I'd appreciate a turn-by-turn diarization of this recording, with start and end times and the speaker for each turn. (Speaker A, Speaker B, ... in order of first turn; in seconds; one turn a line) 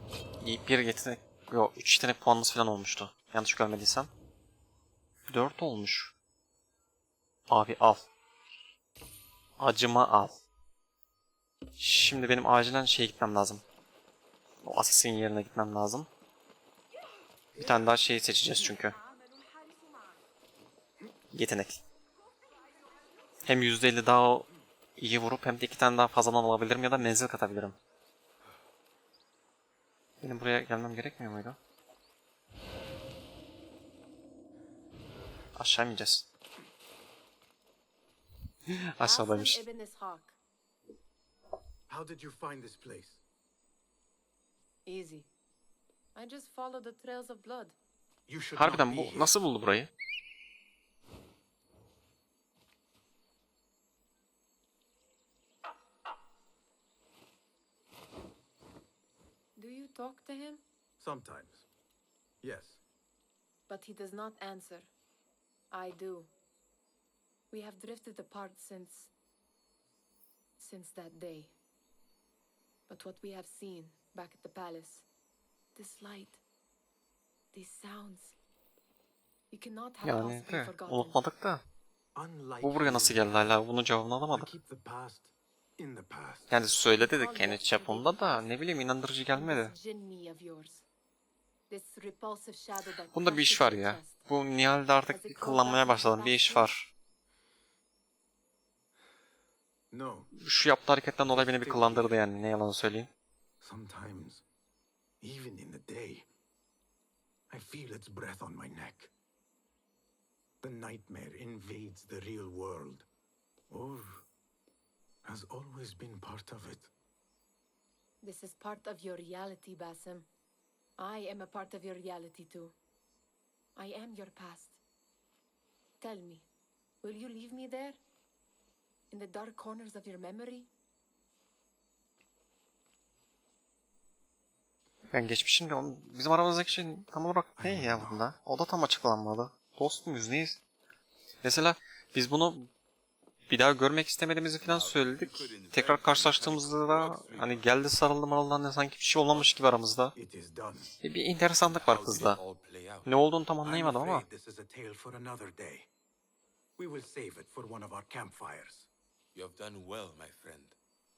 Speaker A: 0.4-4.1
Speaker A: 5.3-6.1
Speaker A: 7.5-8.1
Speaker A: 9.6-10.4
Speaker A: 11.8-13.6
Speaker A: 14.6-16.1
Speaker A: 17.6-19.0
Speaker A: 21.3-21.8
Speaker A: 23.4-27.8
Speaker A: 30.2-31.6
Speaker A: 35.6-36.3
Speaker A: 38.7-39.6
Speaker B: 39.0-40.4
Speaker C: 41.9-43.2
Speaker B: 44.9-45.3
Speaker B: 46.1-47.8
Speaker C: 48.3-49.4
Speaker A: 48.5-49.9
Speaker B: 59.5-60.6
Speaker C: 61.0-61.7
Speaker C: 62.4-62.8
Speaker B: 63.7-64.9
Speaker B: 65.7-66.3
Speaker B: 67.5-69.1
Speaker B: 70.6-71.5
Speaker B: 72.9-75.0
Speaker B: 75.7-76.4
Speaker B: 77.5-78.4
Speaker B: 79.5-81.2
Speaker A: 80.0-81.6
Speaker C: 82.1-83.5
Speaker A: 82.6-84.5
Speaker C: 84.3-86.5
Speaker A: 86.5-89.8
Speaker B: 86.7-88.5
Speaker B: 89.3-90.9
Speaker B: 91.7-94.2
Speaker A: 93.1-96.9
Speaker B: 95.1-96.7
Speaker C: 99.9-100.3
Speaker A: 100.3-103.1
Speaker C: 101.2-102.2
Speaker C: 103.6-104.4
Speaker C: 105.2-106.3
Speaker C: 107.5-109.1
Speaker C: 110.6-113.0
Speaker C: 113.7-114.2
Speaker C: 115.2-116.9
Speaker B: 118.2-120.3
Speaker B: 121.0-122.7
Speaker B: 123.7-124.8
Speaker B: 126.0-126.5
Speaker B: 127.0-128.0
Speaker B: 129.1-130.7
Speaker A: 135.1-140.6
Speaker C: 137.6-138.2
Speaker A: 141.4-142.7
Speaker A: 143.5-150.1
Speaker D: 144.6-147.8
Speaker C: 150.1-150.9
Speaker A: 151.0-152.4
Speaker D: 151.6-153.2
Speaker A: 153.0-154.2
Speaker C: 153.6-155.9
Speaker C: 156.8-158.9
Speaker D: 159.3-160.8